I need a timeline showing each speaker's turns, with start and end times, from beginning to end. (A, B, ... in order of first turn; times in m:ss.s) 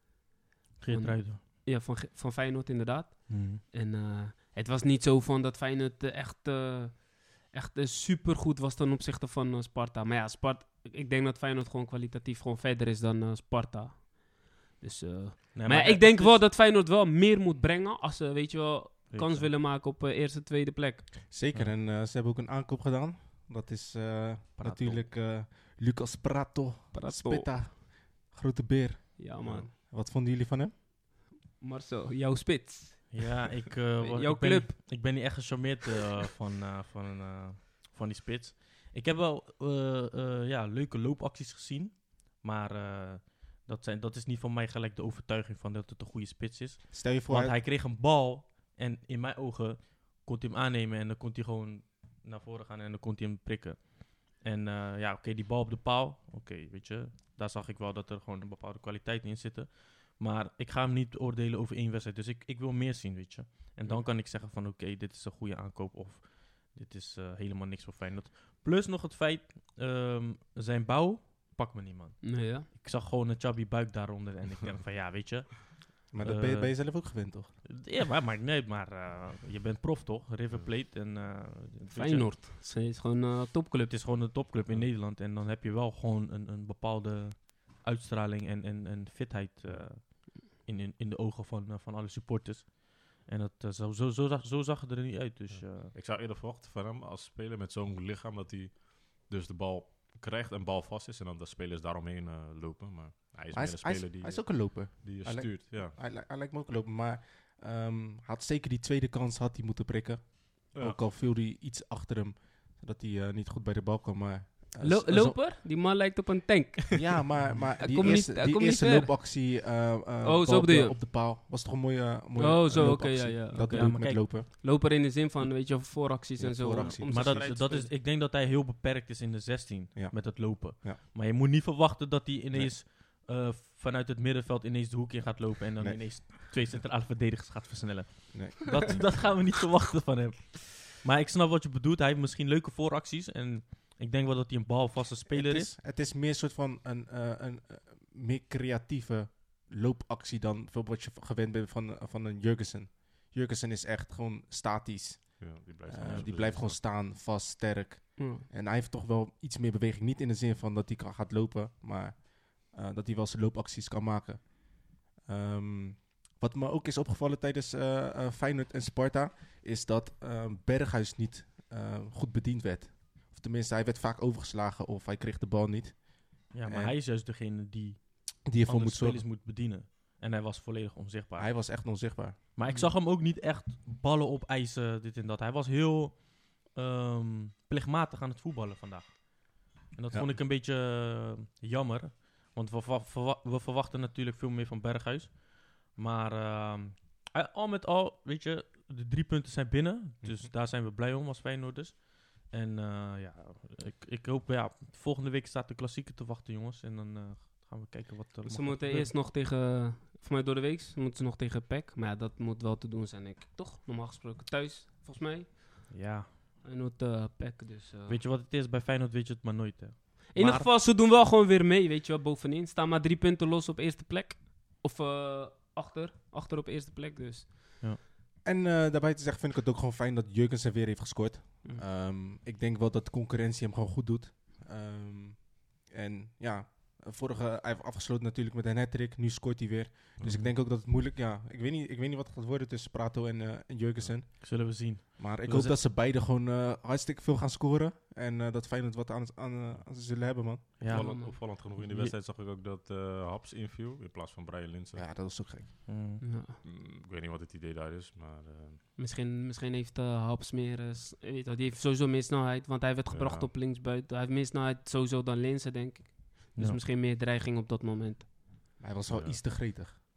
0:00.8-0:01.4 A
0:00.9-0:21.2 B
0:03.3-0:03.6 A
0:15.5-0:16.4 A
0:19.1-0:19.5 A
0:21.2-0:30.8 C
0:24.6-0:25.0 A
0:26.9-0:27.7 B
0:29.2-0:29.7 B
0:29.4-0:29.7 D
0:31.6-0:33.3 B
0:33.1-1:22.3 A
0:34.0-0:34.9 B
0:46.9-0:47.6 C
1:12.2-1:12.7 B
1:16.1-1:17.6 C
1:21.9-1:24.0 B
1:23.9-1:35.9 A
1:35.5-1:45.9 D
1:43.5-1:55.4 C
1:50.7-1:51.0 D
1:54.8-1:59.1 B
1:56.9-2:04.5 C
2:00.2-2:01.0 B
2:02.4-2:07.9 B
2:02.7-2:04.2 A
2:06.4-2:07.4 C
2:07.0-2:25.7 A
2:09.9-2:11.0 C
2:12.5-2:12.8 C
2:15.8-2:16.4 C
2:18.3-2:19.1 C
2:25.3-2:56.9 C
2:35.4-2:36.8 D
2:36.0-2:36.3 A
2:38.2-2:38.4 B
2:56.5-3:29.1 A
2:58.4-2:59.2 C
3:01.4-3:02.4 C
3:28.4-3:38.2 B
3:35.9-3:36.3 A
3:38.1-3:40.7 A
3:40.3-3:47.8 B
3:48.4-4:10.8 C
4:00.2-4:00.5 A
4:04.4-4:05.8 A
4:10.8-4:12.1 A
4:10.8-4:15.1 D
4:10.9-4:11.4 B
4:14.9-4:16.1 C
4:15.8-4:16.2 A
4:16.2-4:16.6 B
4:16.6-4:18.8 D
4:19.0-4:28.3 B
4:23.1-4:23.5 D
4:26.5-4:26.8 A
4:28.8-4:29.9 C
4:29.1-4:29.4 D